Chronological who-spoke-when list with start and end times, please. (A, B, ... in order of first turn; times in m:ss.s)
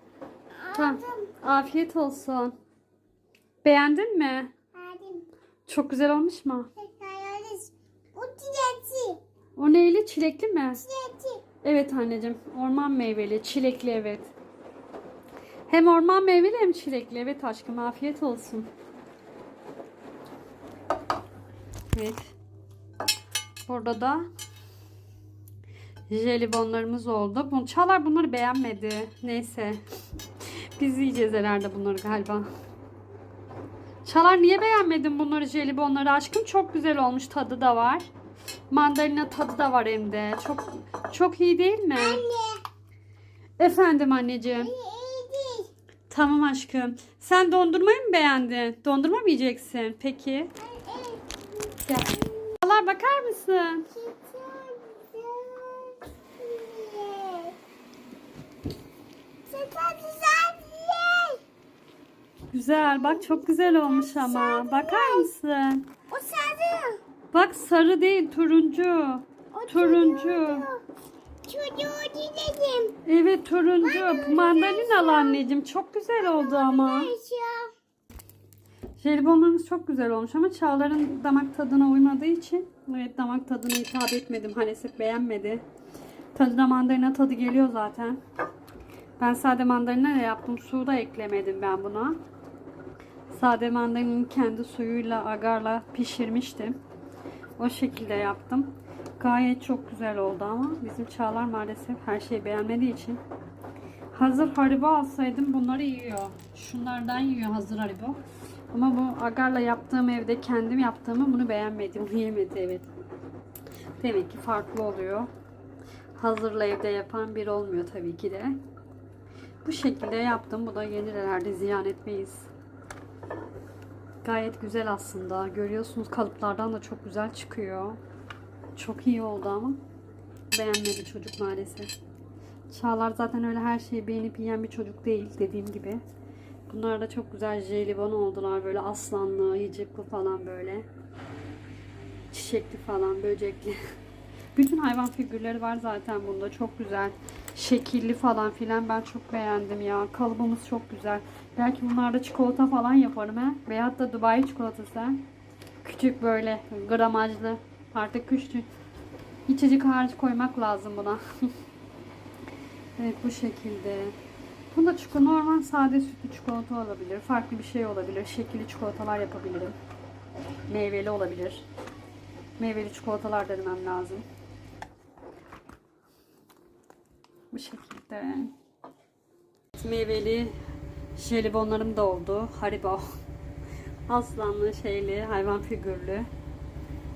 0:00.6-0:01.3 A
0:00.7-0:02.5 B
0:03.6-0:04.5 B
0:04.7-0:05.2 A
0:05.7-0:06.7 B
0:06.8-0:09.2 A
0:09.6-0:10.9 B
0:10.8-0:11.4 A
0:11.6-0:14.3 B
0:15.7-0:18.7 B
0:21.9-0:22.3 B
0:23.6-0:24.3 B
0:26.1-0:29.8 B
0:30.8-0:32.5 B
0:34.0-0:38.1 B
0:38.7-0:42.2 B
0:41.9-0:42.6 A
0:43.6-0:44.7 B
0:44.5-0:45.7 A
0:46.1-0:50.5 B
0:50.6-0:52.6 A
0:51.8-0:53.9 B
0:53.9-0:57.6 A
0:59.5-1:01.4 A
1:02.5-1:05.8 B
1:02.8-1:05.3 A
1:06.1-1:07.0 A
1:07.3-1:10.7 B
1:09.5-1:10.8 A
1:11.4-1:12.9 A
1:13.0-1:17.1 B
1:13.8-1:15.4 A
1:16.2-1:17.7 A
1:19.0-1:25.6 B
1:26.3-1:28.2 B
1:29.2-1:32.2 B
1:33.3-1:36.8 B
1:37.6-1:43.2 B
1:44.1-1:48.2 B
1:48.7-1:52.9 B
1:54.0-1:55.3 B
1:56.2-1:58.6 B
1:59.6-2:02.5 B
2:04.2-2:08.0 B
2:08.8-2:09.8 B
2:10.5-2:11.9 B
2:12.7-2:16.0 B
2:16.7-2:20.9 B
2:22.3-2:23.8 B
2:24.5-2:35.2 B
2:35.8-2:38.7 B
2:39.5-2:41.2 B
2:43.0-2:44.1 B
2:44.7-2:49.8 B
2:50.7-2:51.6 B
2:52.6-2:54.2 B
2:57.5-2:58.5 B
2:59.8-3:00.5 B
3:01.2-3:03.1 B
3:04.1-3:06.3 B